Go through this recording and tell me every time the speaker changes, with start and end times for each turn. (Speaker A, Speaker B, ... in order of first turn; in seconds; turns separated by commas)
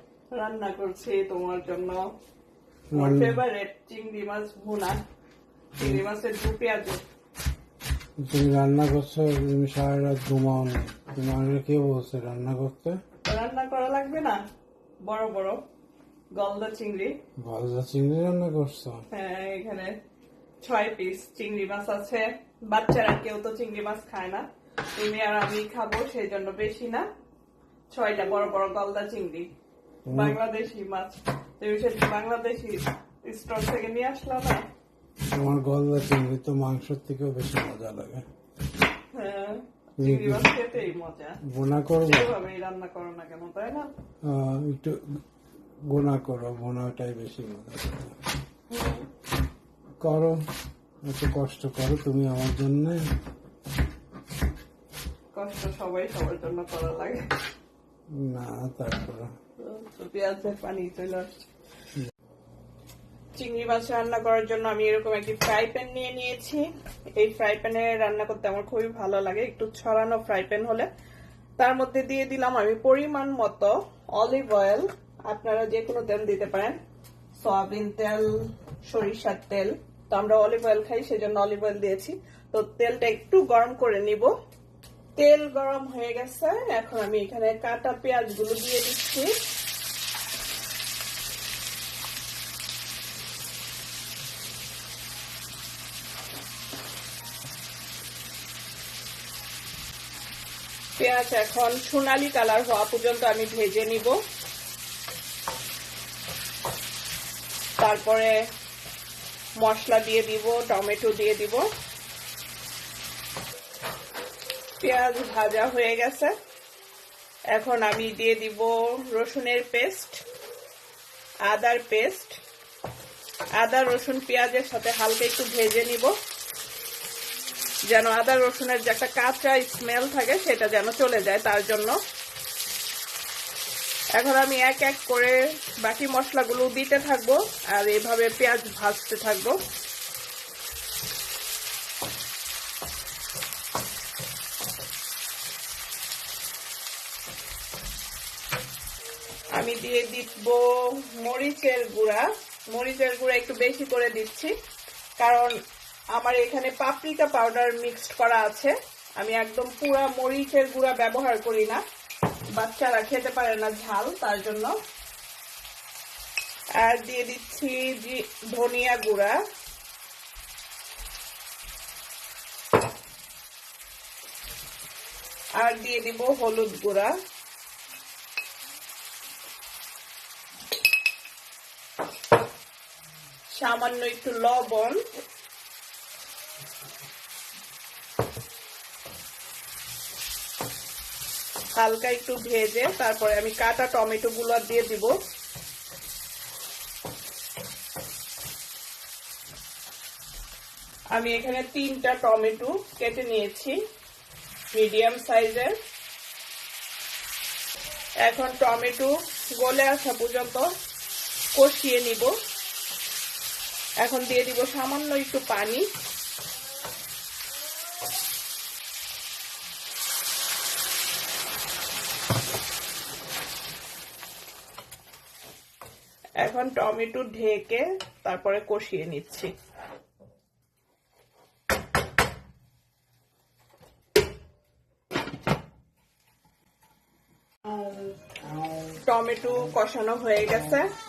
Speaker A: 0.3-2.0, Speaker B: 2.9-3.4, Speaker A: 3.0-5.0, Speaker A: 5.8-7.0, Speaker B: 8.2-13.0, Speaker A: 13.2-14.4, Speaker A: 15.0-15.6, Speaker A: 16.4-17.2, Speaker B: 17.4-19.0, Speaker A: 19.1-19.9, Speaker A: 20.6-24.4, Speaker A: 25.0-27.1, Speaker A: 27.9-29.5, Speaker B: 30.1-30.4, Speaker A: 30.1-34.6, Speaker B: 35.3-38.2, Speaker A: 39.1-41.4, Speaker B: 40.0-40.5, Speaker B: 41.5-42.3, Speaker A: 42.0-43.9, Speaker B: 44.2-45.0, Speaker B: 45.9-48.2, Speaker A: 48.7-49.1, Speaker B: 50.0-50.4, Speaker B: 51.0-53.0, Speaker A: 55.3-57.2, Speaker B: 58.1-59.3, Speaker A: 59.6-61.4, Speaker A: 63.4-66.7, Speaker A: 67.2-70.9, Speaker A: 71.6-76.8, Speaker A: 77.4-78.4, Speaker A: 78.9-84.3, Speaker A: 85.2-89.3, Speaker A: 101.0-104.2, Speaker A: 107.8-108.4, Speaker A: 109.6-111.7, Speaker A: 114.8-116.3, Speaker A: 117.5-120.2, Speaker A: 121.5-122.4, Speaker A: 123.6-126.1, Speaker A: 127.9-131.9, Speaker A: 134.2-139.6, Speaker A: 149.6-154.5, Speaker A: 155.2-155.5, Speaker A: 156.2-161.8, Speaker A: 162.6-164.7, Speaker A: 166.8-169.4, Speaker A: 175.6-177.1, Speaker A: 183.5-185.0, Speaker A: 191.8-195.1, Speaker A: 201.1-203.8, Speaker A: 204.7-205.8, Speaker A: 208.2-210.7, Speaker A: 211.6-212.3, Speaker A: 214.0-215.9, Speaker A: 226.4-229.5, Speaker A: 239.0-240.9